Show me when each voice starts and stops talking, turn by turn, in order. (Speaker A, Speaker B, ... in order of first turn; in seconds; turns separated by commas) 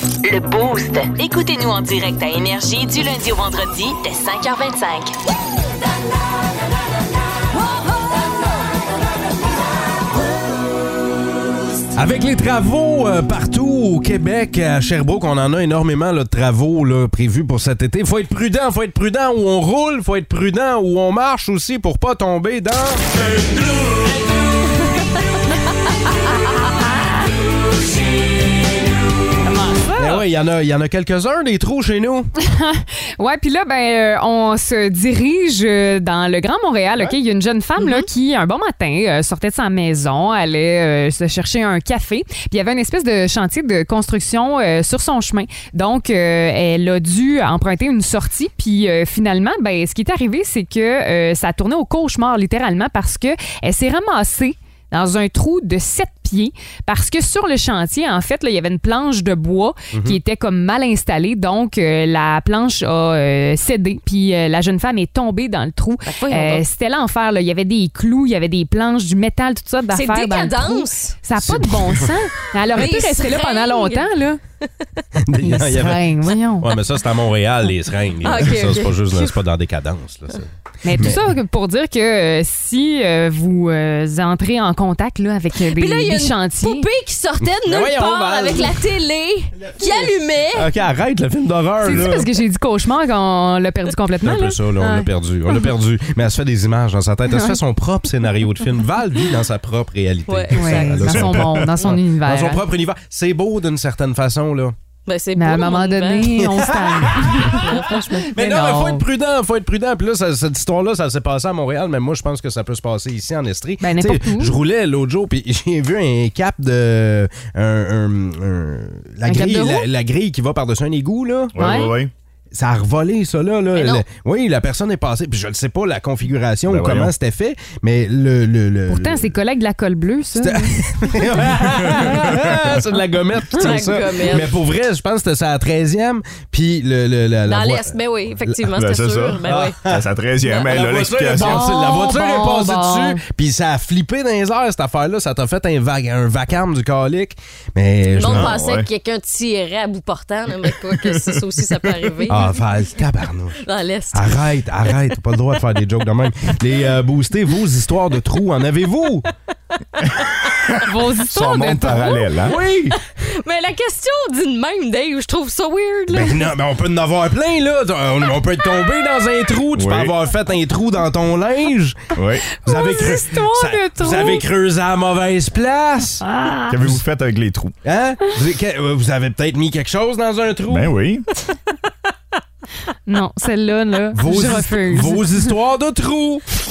Speaker A: 0.2-5.1, Speaker B: 11.9-23.1, Speaker C: 29.4-30.2, Speaker B: 30.0-32.3, Speaker C: 32.4-74.4, Speaker D: 37.8-38.1, Speaker B: 59.9-60.2, Speaker D: 66.1-66.6, Speaker D: 69.9-71.2, Speaker B: 71.4-72.0, Speaker D: 72.7-74.1, Speaker D: 74.6-75.0, Speaker B: 75.2-81.2, Speaker C: 75.4-76.7, Speaker D: 78.2-79.4, Speaker C: 80.8-86.9, Speaker D: 85.6-90.7, Speaker B: 87.4-88.8, Speaker B: 89.6-92.3, Speaker C: 91.8-95.1, Speaker B: 94.2-104.8, Speaker C: 97.3-97.6, Speaker D: 100.3-101.3, Speaker C: 100.5-102.6, Speaker E: 101.1-101.7, Speaker D: 105.1-108.3, Speaker C: 105.4-109.0, Speaker B: 106.5-107.5, Speaker B: 108.3-122.0, Speaker C: 113.8-114.5, Speaker C: 119.3-119.8, Speaker E: 121.5-122.1, Speaker C: 121.6-121.9, Speaker B: 122.5-129.3, Speaker D: 123.8-124.0, Speaker E: 126.7-127.1, Speaker C: 128.9-132.4, Speaker B: 130.4-138.6, Speaker D: 133.6-134.6, Speaker D: 137.5-139.8, Speaker E: 138.7-141.7, Speaker B: 139.4-140.1, Speaker D: 140.4-141.0, Speaker B: 140.7-148.6, Speaker C: 141.4-143.2, Speaker D: 148.2-152.5, Speaker E: 148.3-148.9, Speaker E: 150.8-152.2, Speaker B: 152.3-153.6, Speaker D: 153.6-155.0, Speaker B: 154.1-159.3, Speaker E: 160.6-162.6, Speaker C: 160.8-162.4, Speaker B: 162.4-163.0, Speaker D: 163.2-166.5, Speaker B: 166.1-176.2, Speaker E: 169.7-170.2, Speaker E: 172.1-172.5, Speaker D: 172.5-174.4, Speaker C: 176.2-176.8, Speaker E: 176.7-177.8, Speaker B: 177.8-180.9, Speaker E: 180.7-181.3, Speaker C: 183.1-185.5, Speaker B: 184.1-186.4